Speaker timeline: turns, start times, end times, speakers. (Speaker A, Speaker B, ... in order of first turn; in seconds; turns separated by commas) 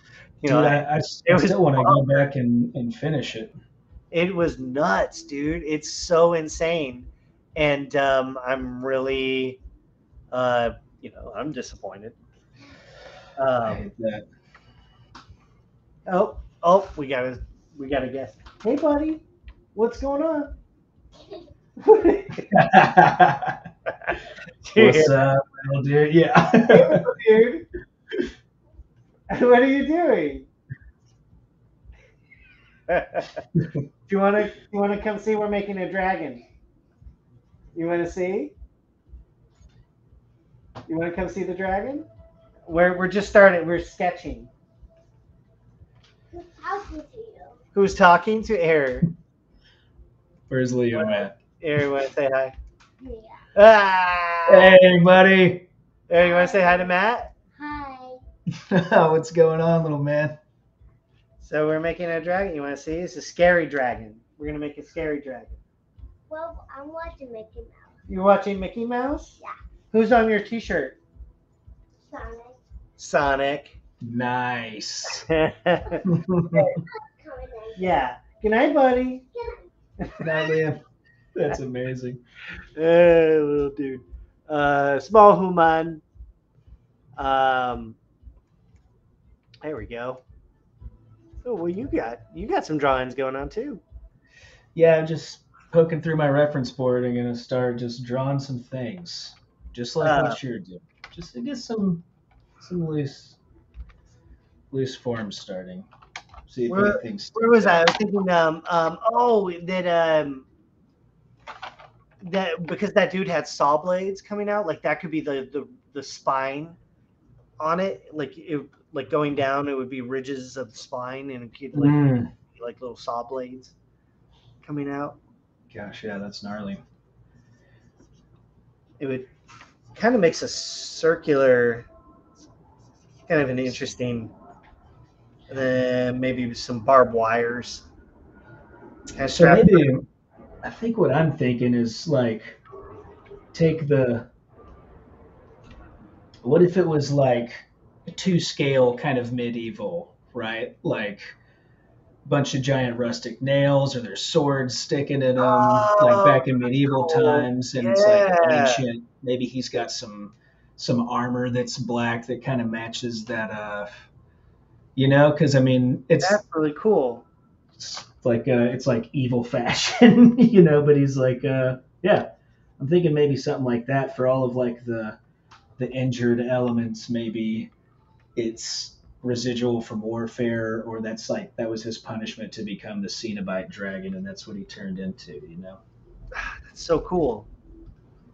Speaker A: 0.4-2.2, Speaker B: 0.4-3.5, Speaker A: 4.1-9.6, Speaker A: 10.3-12.2, Speaker A: 13.4-13.9, Speaker B: 13.6-14.2, Speaker A: 16.1-19.2, Speaker A: 19.7-20.5, Speaker A: 21.8-22.5, Speaker B: 22.5-23.6, Speaker A: 24.0-25.1, Speaker B: 24.8-27.0, Speaker A: 26.6-27.7, Speaker A: 29.3-30.5, Speaker A: 32.9-33.4, Speaker A: 34.1-36.4, Speaker A: 37.7-38.5, Speaker A: 40.9-42.1, Speaker A: 42.7-44.5, Speaker C: 46.3-47.6, Speaker A: 47.7-49.1, Speaker B: 50.5-51.3, Speaker A: 50.9-52.5, Speaker C: 53.0-53.4, Speaker A: 53.5-54.8, Speaker B: 54.5-55.7, Speaker A: 56.1-57.3, Speaker C: 56.2-56.9, Speaker C: 57.5-58.2, Speaker B: 58.5-60.4, Speaker A: 61.4-65.6, Speaker C: 66.3-67.9, Speaker A: 68.1-69.3, Speaker A: 69.9-71.0, Speaker C: 72.1-72.5, Speaker A: 73.0-73.8, Speaker B: 74.0-75.2, Speaker A: 75.1-76.8, Speaker B: 76.0-76.8, Speaker C: 77.1-77.8, Speaker A: 77.8-79.2, Speaker A: 80.0-80.4, Speaker B: 80.2-80.8, Speaker B: 81.3-82.2, Speaker A: 82.8-86.0, Speaker A: 87.2-88.0, Speaker A: 89.6-90.2, Speaker A: 91.4-93.8, Speaker B: 94.7-102.0, Speaker A: 100.0-100.4, Speaker B: 102.6-103.4, Speaker B: 104.7-105.9, Speaker B: 106.5-107.9, Speaker A: 106.7-110.5, Speaker A: 112.2-116.8, Speaker A: 117.6-123.7, Speaker B: 121.7-122.3, Speaker A: 124.6-125.2, Speaker B: 125.7-126.8, Speaker A: 129.0-129.3, Speaker A: 129.9-131.9, Speaker A: 133.3-134.3, Speaker A: 135.5-137.8, Speaker A: 139.1-139.9, Speaker B: 139.3-140.1, Speaker B: 140.6-142.6, Speaker B: 143.5-144.3, Speaker B: 146.4-151.3, Speaker B: 152.2-164.1, Speaker A: 155.4-158.8, Speaker B: 164.9-166.4, Speaker A: 166.2-167.2, Speaker B: 167.8-172.3, Speaker B: 172.8-175.2, Speaker B: 175.8-177.7, Speaker B: 178.3-185.8, Speaker A: 186.3-187.5